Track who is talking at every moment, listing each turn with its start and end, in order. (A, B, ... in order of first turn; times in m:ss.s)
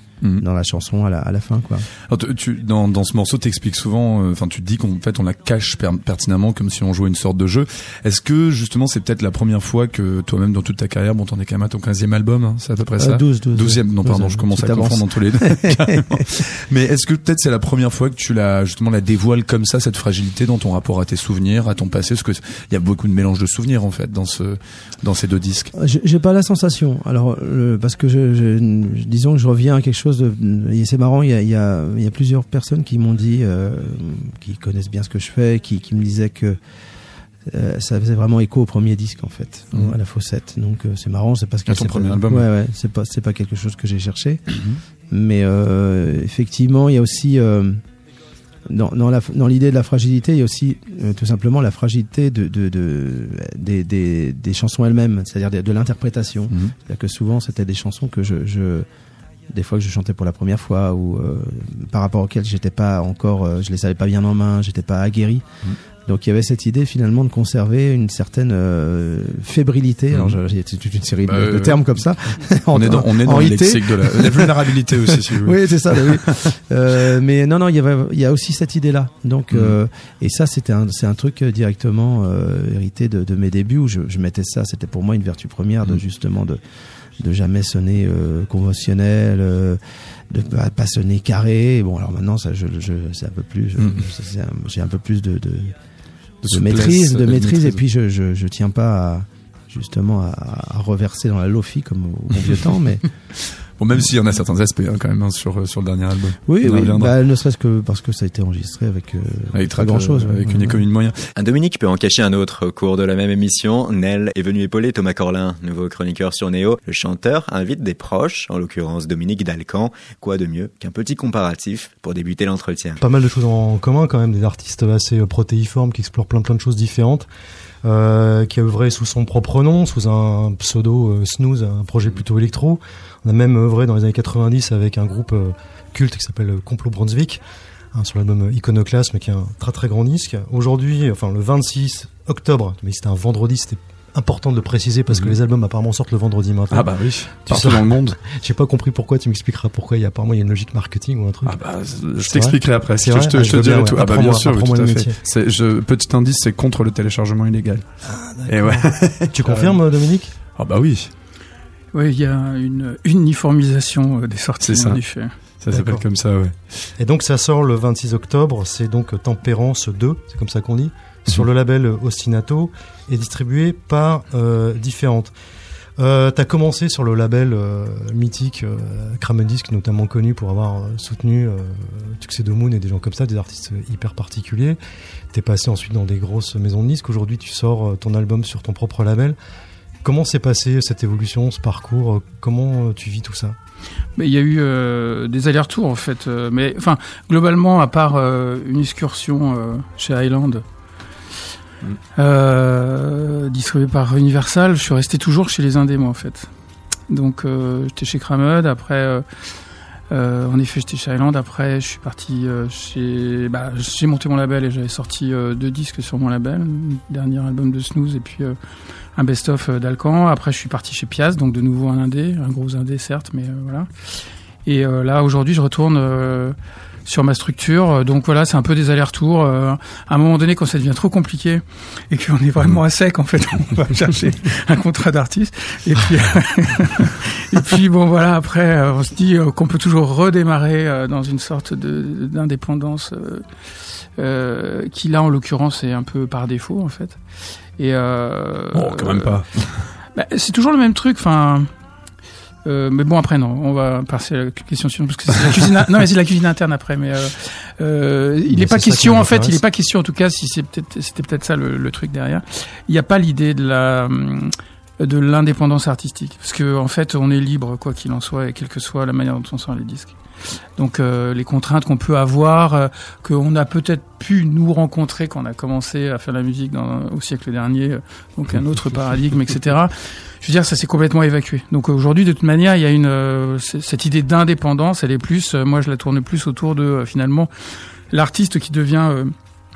0:00.2-0:00.4 A
0:00.4-0:01.8 B
0:02.0-0:25.7 A
0:13.0-0:16.2 B
0:25.7-0:36.6 B
0:37.5-0:44.4 B
0:41.7-0:42.5 A
0:45.1-0:47.8 B
0:48.7-0:58.9 B
0:59.5-1:05.5 B
1:06.0-1:26.6 B
1:10.1-1:10.4 A
1:11.2-1:11.9 A
1:12.7-1:16.5 A
1:27.2-1:29.8 B
1:30.3-1:35.7 B
1:33.8-1:34.0 A
1:36.4-1:37.8 A
1:36.5-1:43.0 B
1:43.8-1:47.1 A
1:46.5-1:50.8 B
1:49.5-1:51.3 A
1:51.4-2:03.0 C
2:03.0-2:07.3 D
2:07.8-2:17.4 D
2:17.9-2:35.2 D
2:25.1-2:25.4 A
2:26.7-2:28.2 A
2:31.4-2:37.8 A
2:38.0-2:40.3 D
2:38.5-2:39.8 A
2:40.5-2:41.1 A
2:41.9-2:45.4 E
2:44.6-2:46.9 A
2:45.7-2:46.0 D
2:47.0-2:55.3 D
2:56.0-3:04.8 D
3:05.3-3:09.4 D
3:10.0-3:13.6 D
3:14.2-3:20.6 E
3:22.1-3:26.5 E
3:27.1-3:29.2 E
3:30.1-3:38.6 E
3:39.2-3:43.9 E
3:44.6-4:03.4 E
4:04.2-4:07.2 E
4:07.8-4:09.4 E
4:08.7-4:09.9 A
4:10.1-4:11.7 E
4:12.6-4:30.2 E
4:18.5-4:19.6 D
4:30.8-4:47.5 E
4:48.1-4:49.3 E